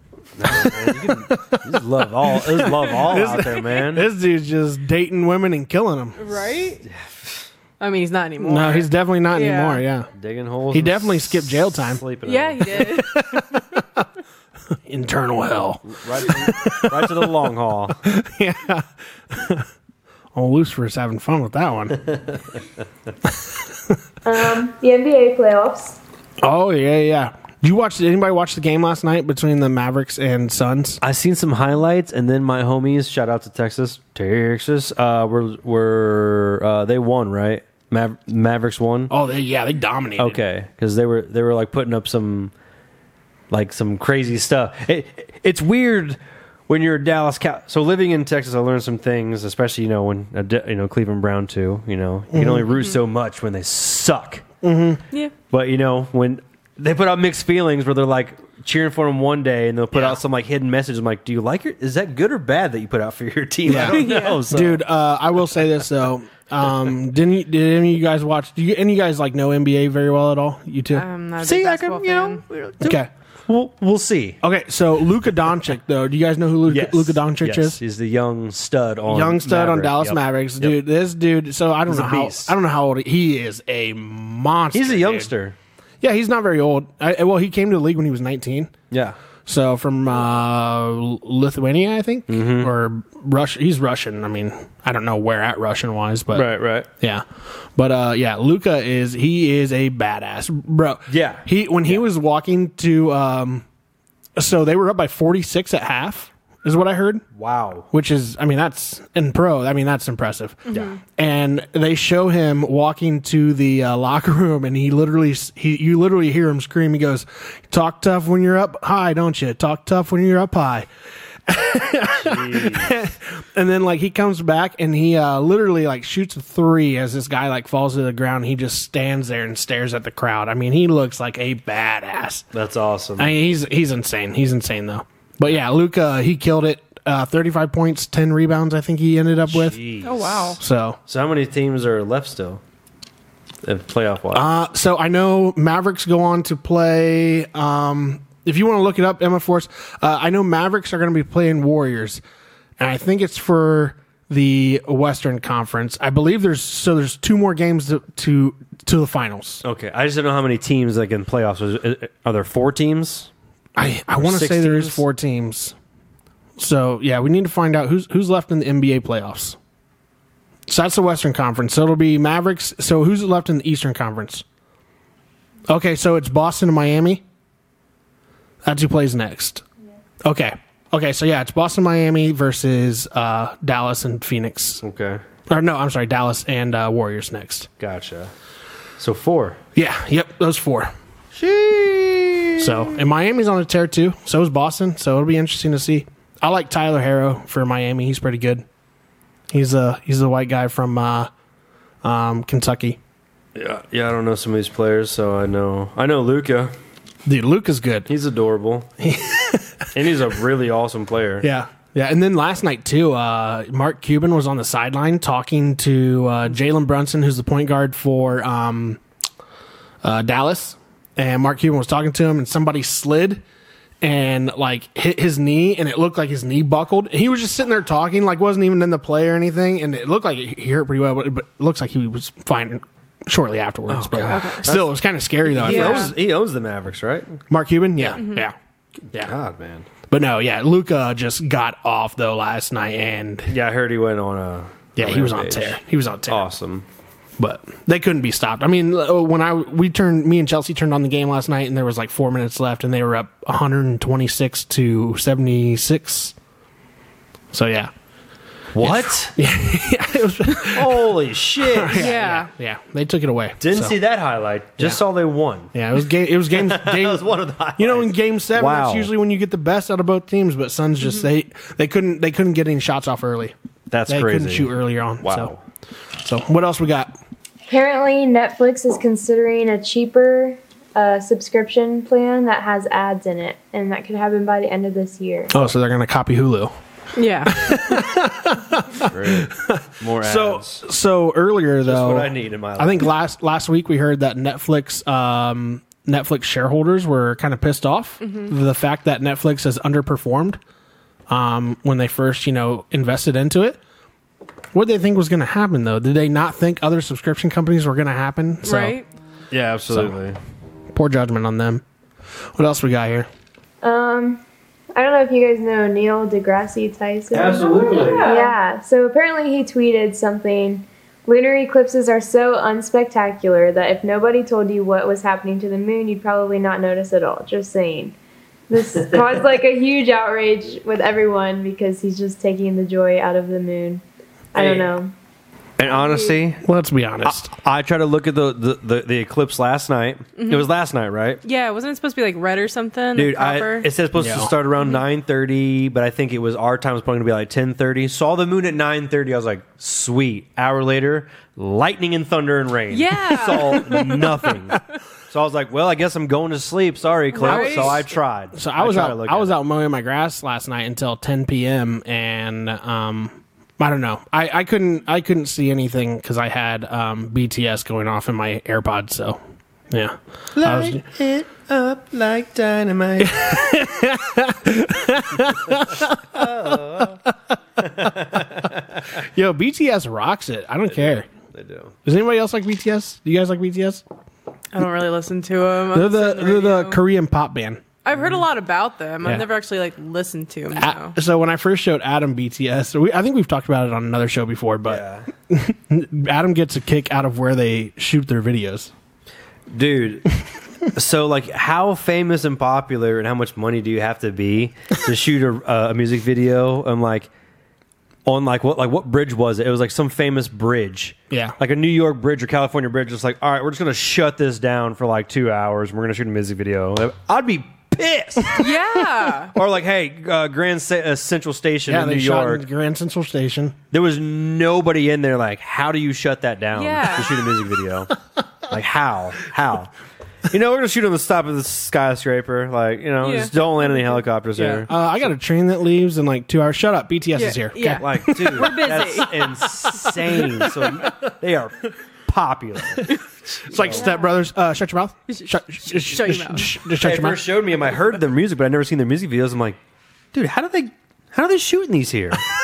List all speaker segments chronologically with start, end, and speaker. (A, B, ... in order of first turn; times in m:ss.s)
0:00.4-0:04.1 A
0:00.5-0:06.2 B
0:06.2-0:06.8 C
0:06.8-0:07.5 A
0:07.8-0:09.8 C
0:08.4-0:10.1 B
0:10.1-0:12.9 A
0:10.7-0:12.0 B
0:12.2-0:13.2 C
0:12.7-0:14.0 B
0:14.9-0:17.4 B
0:15.9-0:18.0 A
0:17.9-0:19.7 B
0:20.3-0:22.1 B
0:24.2-0:26.0 D
0:26.4-0:31.0 B
0:31.0-0:39.1 A
0:39.1-0:40.4 B
0:40.2-0:42.5 A
0:43.5-0:54.4 A
0:52.3-0:52.6 B
0:54.6-0:55.0 B
0:55.5-1:04.8 A
1:03.7-1:11.0 B
1:03.7-1:04.4 C
1:10.9-1:12.4 C
1:11.4-1:14.4 A
1:12.8-1:13.1 B
1:14.4-1:17.8 B
1:16.6-1:20.8 A
1:19.1-1:25.3 B
1:21.8-1:22.5 A
1:24.7-1:25.6 A
1:26.0-1:28.7 B
1:28.9-1:29.2 A
1:29.4-1:37.2 B
1:32.3-1:32.7 A
1:36.3-1:36.9 A
1:37.8-1:43.6 B
1:41.1-1:42.0 A
1:44.4-1:47.2 B
1:47.3-1:47.9 A
1:47.9-1:50.6 B
1:50.7-1:51.0 C
1:50.7-1:51.0 A
1:51.2-2:00.9 B
2:01.5-2:12.4 B
2:02.2-2:02.9 A
2:12.5-2:13.3 A
2:13.2-2:19.8 B
2:19.5-2:20.5 A
2:20.0-2:20.6 C
2:20.6-2:21.0 B
2:21.1-2:22.6 A
2:23.6-2:24.4 A
2:24.3-2:32.2 B
2:32.8-2:39.6 B
2:39.6-2:43.3 A
2:43.8-2:45.7 B
2:44.2-2:45.0 A
2:46.6-2:49.6 B
2:50.7-2:54.4 B
2:55.7-2:57.2 B
2:58.6-2:59.6 B
3:00.2-3:04.8 B
3:04.8-3:05.2 A
3:05.5-3:07.7 B
3:07.8-3:08.3 A
3:09.0-3:09.6 A
3:09.7-3:10.9 B
3:11.3-3:13.0 A
3:12.6-3:18.6 B
3:19.5-3:21.3 B
3:22.0-3:23.0 B
3:23.5-3:26.7 A
3:27.2-3:28.1 B
3:28.1-3:28.9 A
3:29.0-3:29.9 B
3:29.9-3:31.5 A
3:31.4-3:39.0 B
3:40.0-3:43.4 B
3:44.0-3:56.1 B
3:53.9-3:54.9 A
3:54.3-3:54.6 C
3:55.4-3:57.4 A
3:55.6-3:56.1 C
3:57.5-3:58.6 B
3:59.1-3:59.9 A
4:00.1-4:03.5 B
4:03.5-4:06.8 A
4:05.0-4:06.5 B
4:07.4-4:16.3 B
4:17.5-4:17.9 B
4:18.7-4:19.3 A
4:18.8-4:21.2 B
4:20.6-4:22.1 A
4:21.7-4:24.0 B
4:21.9-4:22.5 C
4:23.6-4:25.7 A
4:25.7-4:33.5 B
4:26.5-4:29.1 A
4:33.9-4:35.6 A
4:34.1-4:35.5 B
4:36.2-4:37.2 B
4:37.7-4:45.5 D
4:45.5-4:46.7 B
4:47.1-4:47.7 C
4:47.4-5:00.6 B
4:49.0-4:50.8 A
4:51.8-4:53.1 A
4:58.2-4:58.5 C
5:01.3-5:03.8 B
5:04.7-5:09.0 B
5:08.6-5:09.1 C
5:09.5-5:10.4 A
5:10.9-5:11.8 B
5:12.5-5:13.3 B
5:13.8-5:14.4 D
5:14.9-5:28.1 D
5:17.3-5:18.3 A
5:17.8-5:18.5 C
5:28.7-5:34.0 D
5:34.5-5:35.1 D
5:34.5-5:34.9 A
5:35.8-5:36.6 A
5:35.9-5:36.3 C
5:36.6-5:37.5 B
5:37.2-5:41.4 A
5:40.4-5:40.7 C
5:41.4-5:43.9 C
5:43.2-5:59.5 A
5:44.2-5:44.5 B
5:52.9-5:54.3 C
5:57.3-5:58.1 C
5:57.4-6:09.4 B
6:09.9-6:11.0 B
6:10.5-6:13.6 A
6:13.2-6:17.3 B
6:15.7-6:17.2 A
6:18.0-6:19.0 A
6:19.2-6:21.3 B
6:20.9-6:21.9 A
6:22.0-6:24.0 B
6:24.7-6:27.0 C
6:25.9-6:27.8 B
6:28.0-6:31.2 C
6:30.7-6:38.9 B
6:34.9-6:35.3 A
6:39.7-6:40.2 A
6:40.9-6:47.3 A
6:48.2-6:58.7 A
6:51.3-6:51.6 B
6:58.6-6:59.5 C
6:59.5-7:02.6 A
7:01.9-7:03.8 B
7:03.9-7:08.1 A
7:06.7-7:07.3 C
7:08.7-7:09.9 A
7:10.5-7:14.9 A
7:13.2-7:14.2 C
7:14.6-7:21.1 B
7:17.4-7:19.3 C
7:18.0-7:23.1 A
7:23.0-7:27.4 B
7:23.7-7:24.0 A
7:23.8-7:24.3 C
7:25.3-7:26.7 C
7:27.0-7:29.8 A
7:30.3-7:32.4 A